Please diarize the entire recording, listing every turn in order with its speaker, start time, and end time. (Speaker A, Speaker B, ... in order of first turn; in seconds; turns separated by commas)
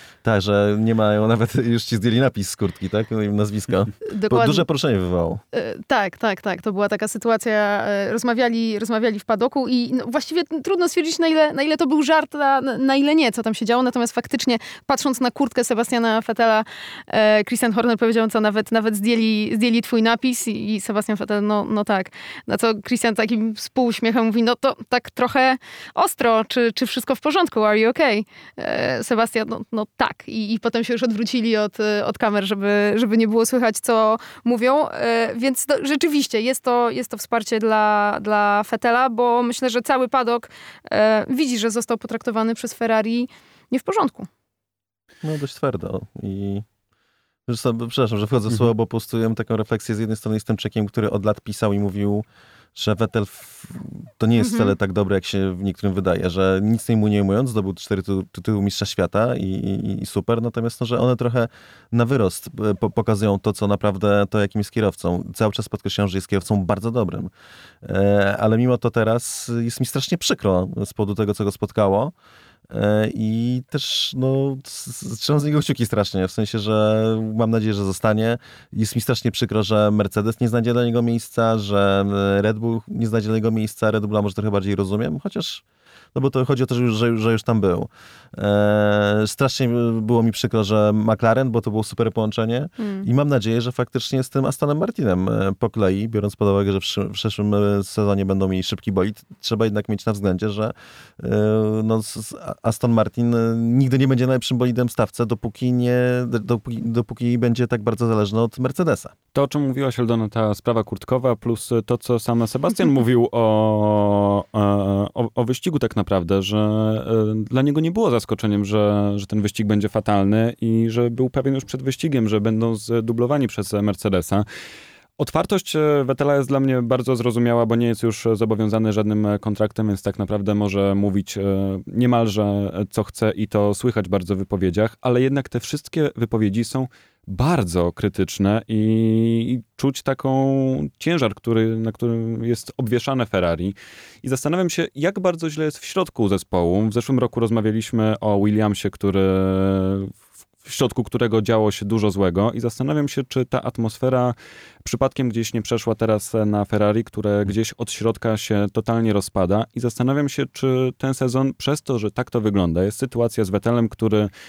Speaker A: 0.2-5.4, Speaker B: 4.0-4.6, Speaker B: 5.5-44.3, Speaker A: 45.2-46.6, Speaker A: 47.5-67.3, Speaker B: 54.4-54.7, Speaker A: 67.8-72.1, Speaker A: 72.7-85.6, Speaker A: 86.1-109.1, Speaker B: 92.8-93.1, Speaker C: 109.3-124.4, Speaker C: 125.2-150.1, Speaker C: 150.6-164.3